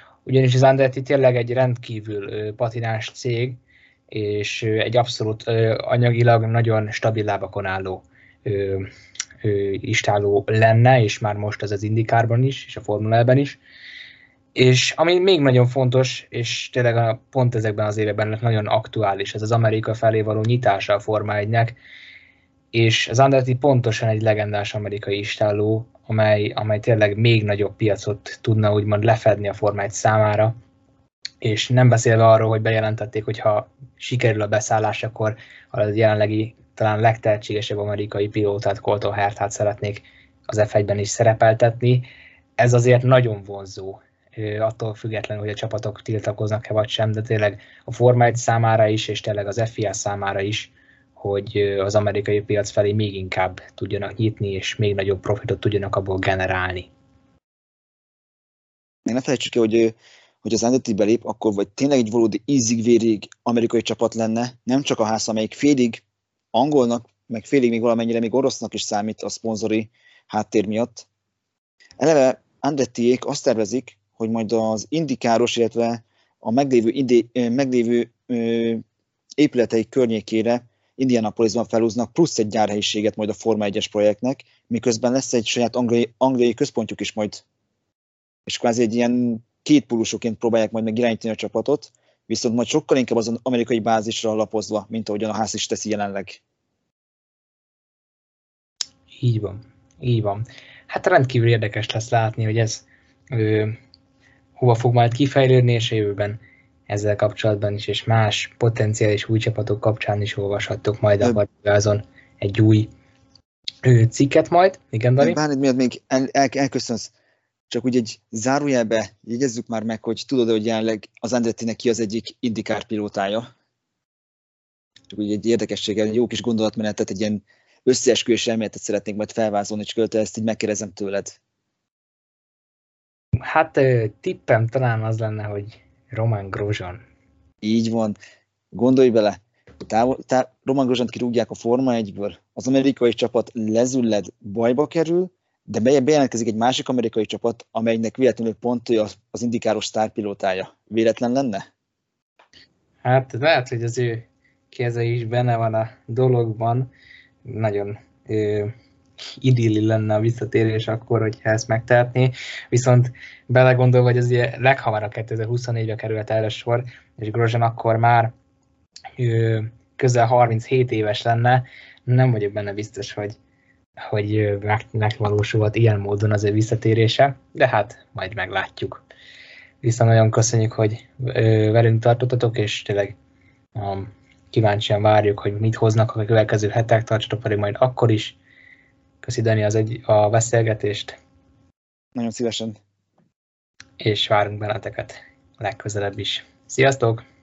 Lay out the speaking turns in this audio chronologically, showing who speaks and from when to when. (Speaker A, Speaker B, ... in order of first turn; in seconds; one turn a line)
Speaker A: 0.2-8.9
Speaker A: 9.4-13.6
Speaker A: 14.6-21.8
Speaker A: 22.7-30.6
Speaker A: 31.4-42.1
Speaker A: 42.6-56.9
Speaker B: 59.1-71.1
Speaker B: 72.0-78.8
Speaker B: 79.4-87.4
Speaker B: 88.5-96.4
Speaker A: 99.2-103.8
Speaker A: 104.6-112.9
Speaker A: 113.8-115.4
Speaker B: 115.2-117.1
Speaker B: 117.7-123.5
Speaker B: 125.1-131.4
Speaker A: 133.5-137.0
Speaker B: 137.6-138.2
Speaker B: 138.7-151.6
Speaker A: 153.0-156.9
Speaker A: 157.4-158.7
Speaker A: 159.4-168.3
Speaker A: 169.2-173.4
Speaker A: 174.0-179.0
Speaker A: 179.8-183.2
Speaker A: 183.8-188.4
Speaker A: 189.2-191.2
Speaker B: 192.2-192.8
Speaker A: 194.0-197.2